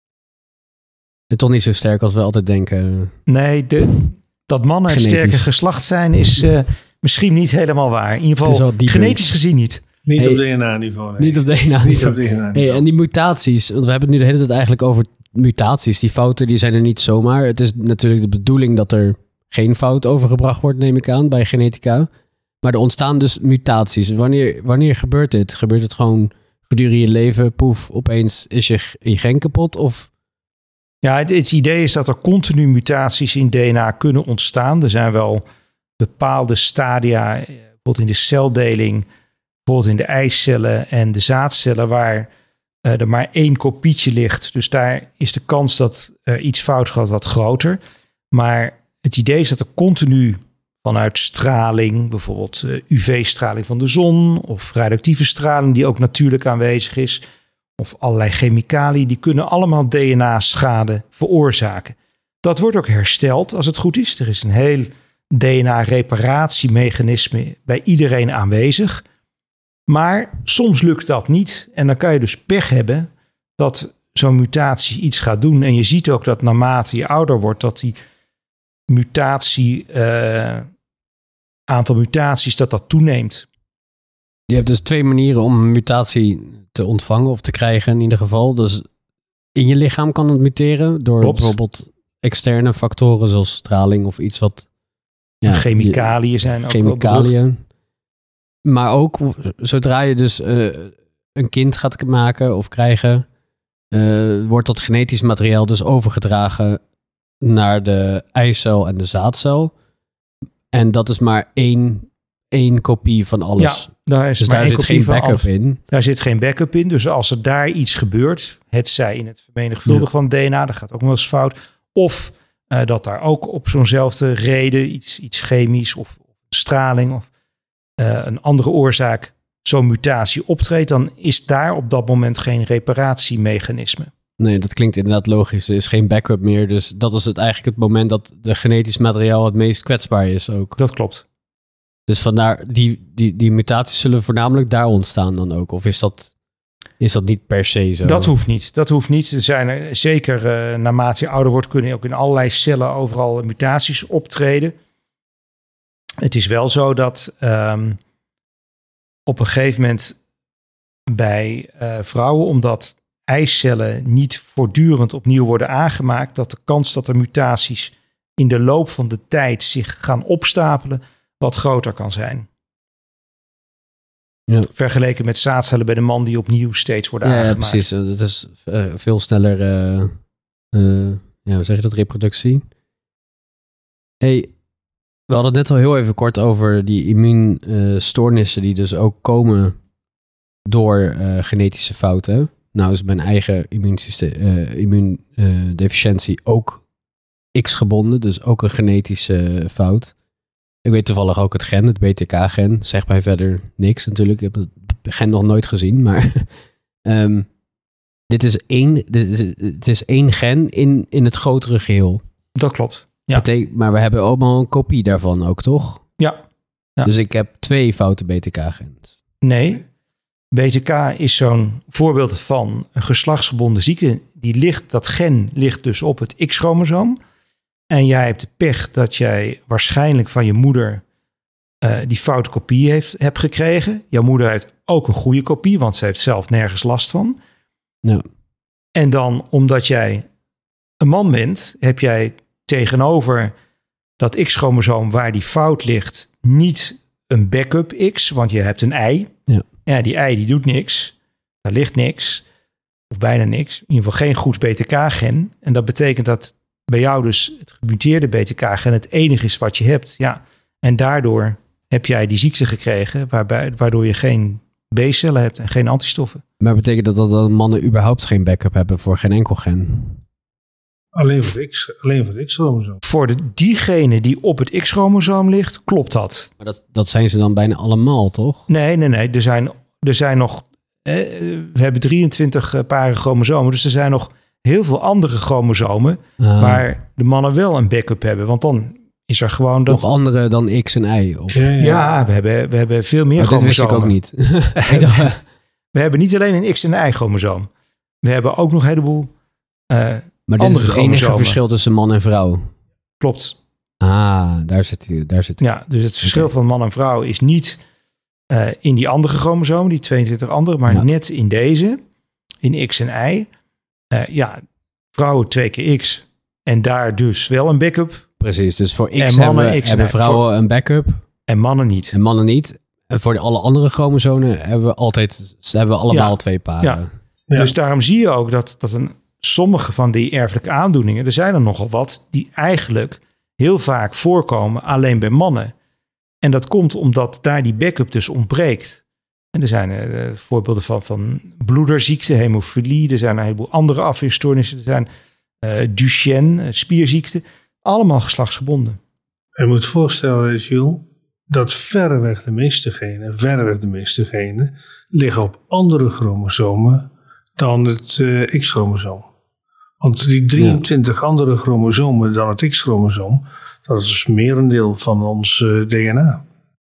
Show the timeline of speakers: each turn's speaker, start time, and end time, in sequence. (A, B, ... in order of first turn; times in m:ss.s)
0:01.3-0:03.2 A
0:03.3-0:09.8 B
0:04.9-0:05.5 A
0:08.4-0:09.3 A
0:10.0-0:12.8 C
0:11.2-0:22.1 A
0:22.6-0:30.1 A
0:31.0-0:35.4 B
0:36.0-0:39.1 B
0:39.7-0:42.3 B
0:42.8-0:47.8 B
0:48.3-0:57.2 B
0:57.8-1:09.0 B
1:09.9-1:18.0 B
1:18.9-1:20.7 B
1:21.7-1:23.5 B
1:24.5-1:28.8 A
1:29.6-1:34.7 A
1:31.2-1:31.6 B
1:35.4-1:36.1 A
1:35.5-1:37.4 B
1:36.7-1:37.6 A
1:38.6-1:43.3 A
1:43.9-1:46.8 A
1:47.4-1:49.7 A
1:50.7-1:55.8 A
1:53.6-2:07.3 B
2:08.0-2:14.1 B
2:14.4-2:20.8 A
2:20.8-2:21.2 B
2:22.1-2:26.3 A
2:27.0-2:28.3 A
2:28.0-2:34.8 B
2:36.2-2:38.0 B
2:39.3-2:40.2 B
2:41.1-2:52.5 B
2:54.7-2:57.8 B
2:57.2-3:00.1 A
3:00.7-3:02.7 A
3:04.2-3:04.5 A
3:05.3-3:09.8 A
3:10.7-3:16.8 A
3:17.5-3:20.1 A
3:20.8-3:26.5 A
3:27.0-3:27.5 A
3:28.3-3:32.2 A
3:32.6-3:33.4 B
3:33.3-3:36.0 A
3:37.0-3:39.1 A
3:39.4-3:39.8 B
3:40.5-3:47.2 B
3:47.9-3:51.0 B
3:51.8-3:57.4 B
3:59.0-4:00.3 B
4:01.0-4:03.5 B
4:04.2-4:09.3 B
4:09.9-4:12.4 B
4:13.1-4:26.4 B
4:26.6-4:30.2 A
4:31.2-4:33.0 C
4:33.0-4:36.5 B
4:36.6-4:38.6 A
4:38.7-4:50.0 B
4:46.4-4:46.8 A
4:49.9-4:51.7 A
4:51.5-4:52.0 C
4:51.8-4:54.2 B
4:53.4-4:55.4 A
4:54.8-4:55.4 B
4:55.9-4:57.7 B
4:58.2-4:59.3 B
4:59.9-5:01.6 B
5:00.5-5:02.7 A
5:03.2-5:03.6 B
5:04.0-5:05.6 A
5:05.6-5:07.8 B
5:06.2-5:06.5 A
5:08.5-5:12.0 B
5:12.6-5:13.5 B
5:14.1-5:14.6 B
5:15.1-5:18.3 B
5:18.4-5:21.2 A
5:19.2-5:20.4 B
5:21.5-5:22.2 B
5:22.1-5:27.1 A
5:26.1-5:27.0 B
5:27.6-5:35.7 B
5:36.4-5:39.0 B
5:39.5-5:45.1 B
5:45.6-5:49.0 B
5:49.6-5:59.3 C
6:00.0-6:06.4 C